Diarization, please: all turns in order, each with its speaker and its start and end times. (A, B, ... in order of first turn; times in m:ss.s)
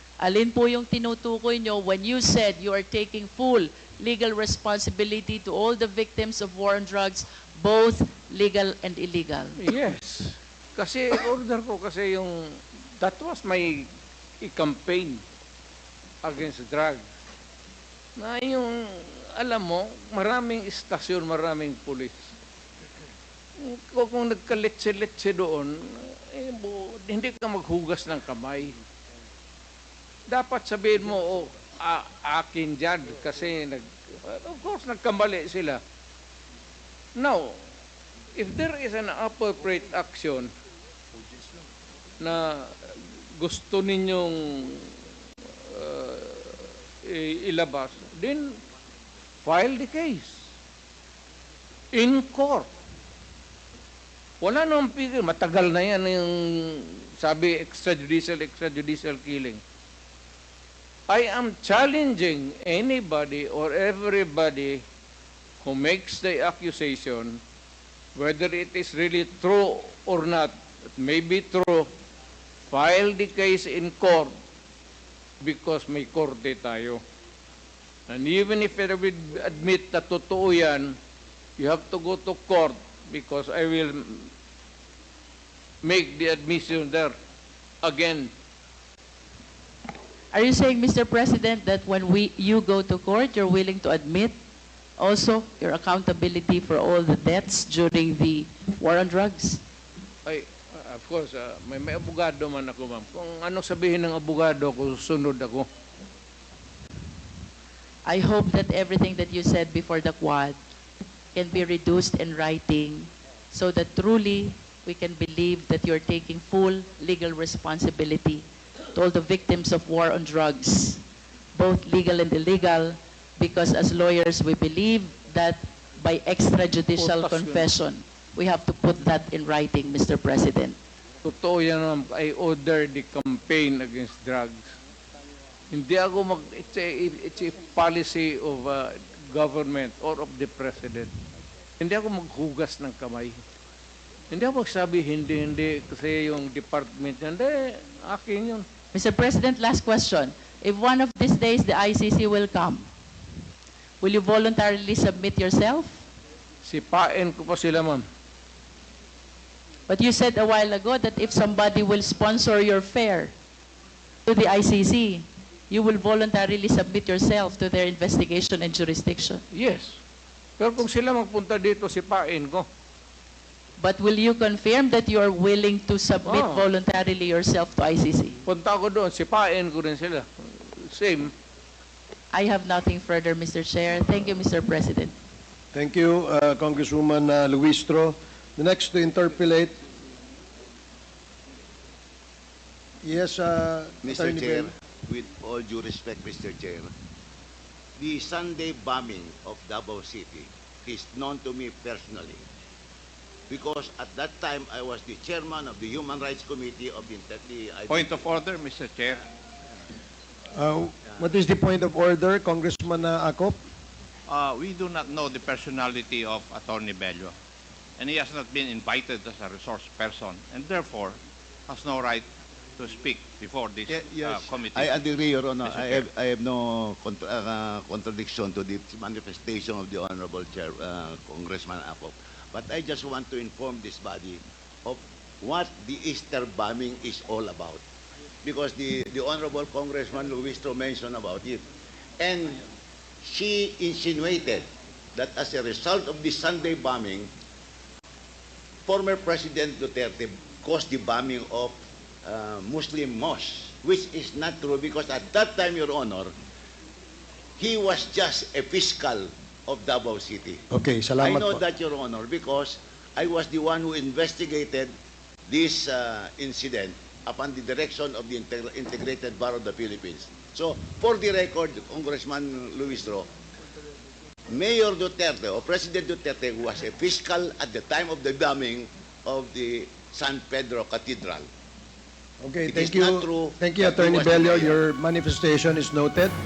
0:00.2-0:09.6 A
0:09.6-0:13.9 B
0:14.4-0:15.2 B
0:16.2-0:17.0 B
0:18.2-0:22.3 B
0:23.6-0:28.8 B
0:30.3-0:35.8 B
0:37.2-0:37.6 B
0:38.4-0:40.5 B
0:42.2-0:44.9 B
0:45.6-0:48.6 B
0:49.4-0:50.4 B
0:51.9-0:52.7 B
0:54.4-0:59.6 B
1:01.1-1:04.8 B
1:05.6-1:07.4 B
1:08.1-1:11.9 B
1:12.7-1:14.3 B
1:15.4-1:17.0 B
1:18.1-1:21.0 B
1:21.6-1:24.3 B
1:25.8-1:27.1 B
1:27.8-1:28.3 B
1:30.3-1:34.4 A
1:35.0-1:39.6 A
1:40.2-1:45.7 B
1:48.0-1:50.6 A
1:51.3-2:01.0 A
2:01.5-2:10.8 A
2:06.9-2:07.7 B
2:11.2-2:14.7 B
2:15.7-2:21.1 B
2:21.8-2:23.4 B
2:24.3-2:28.6 B
2:28.9-2:32.9 A
2:34.0-2:36.0 A
2:36.6-2:38.0 B
2:39.9-2:43.3 A
2:44.2-2:49.4 A
2:49.5-2:50.0 B
2:50.6-2:52.7 B
2:53.8-2:58.4 A
2:56.2-2:56.7 B
2:58.4-3:01.3 B
3:02.3-3:05.1 A
3:05.7-3:09.7 C
3:13.0-3:14.7 C
3:14.0-3:16.9 D
3:18.0-3:22.4 D
3:23.5-3:28.3 D
3:27.9-3:29.2 E
3:30.5-3:33.6 C
3:34.3-3:37.3 E
3:38.0-3:42.2 E
3:42.8-3:45.0 E
3:43.8-3:57.8 D
3:45.6-3:46.0 E
3:58.4-4:01.6 D
4:02.2-4:02.6 D
4:03.2-4:07.3 D
4:08.9-4:16.3 D
4:17.6-4:20.6 D
4:20.7-4:21.6 C
4:21.2-4:24.9 D
4:25.5-4:33.3 D
4:34.5-4:41.5 D
4:42.4-4:46.3 C
4:42.6-4:44.8 D